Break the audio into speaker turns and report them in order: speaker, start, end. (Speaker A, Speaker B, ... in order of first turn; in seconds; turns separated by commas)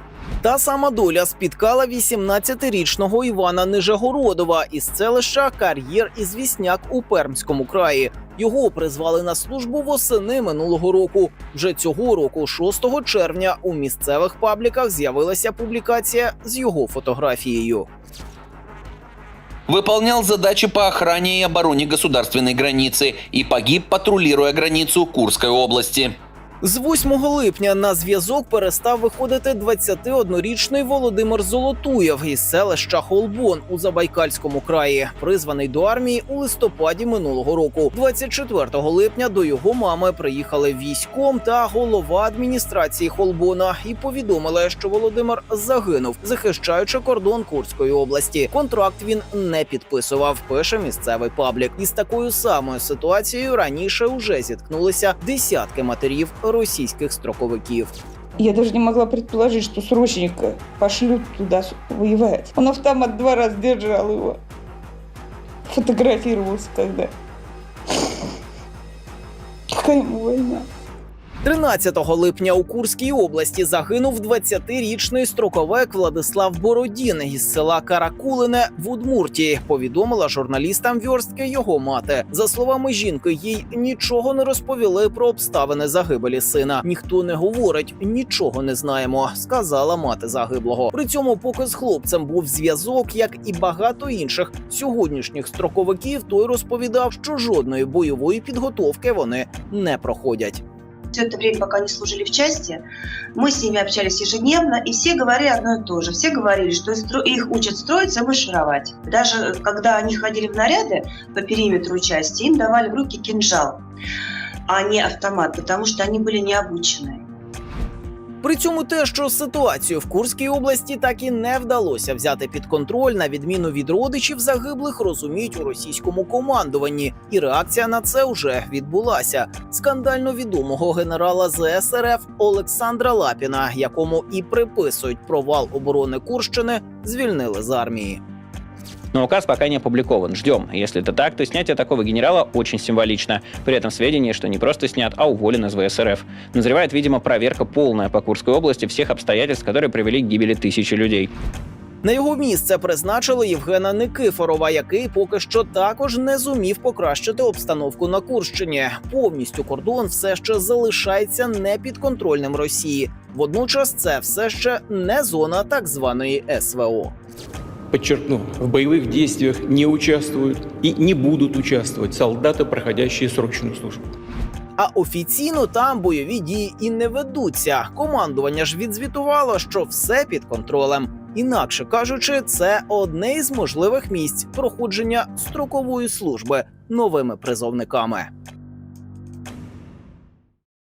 Speaker A: 0.4-17.9, Speaker B: 19.7-26.2, Speaker A: 26.6-57.9, Speaker C: 58.4-64.4, Speaker C: 65.7-67.1, Speaker C: 69.8-70.7, Speaker A: 71.4-100.6, Speaker D: 101.2-102.8, Speaker D: 103.4-113.8, Speaker D: 114.7-117.2, Speaker A: 118.4-138.2, Speaker E: 139.1-151.3, Speaker A: 152.0-167.1, Speaker F: 167.9-174.0, Speaker A: 174.8-188.3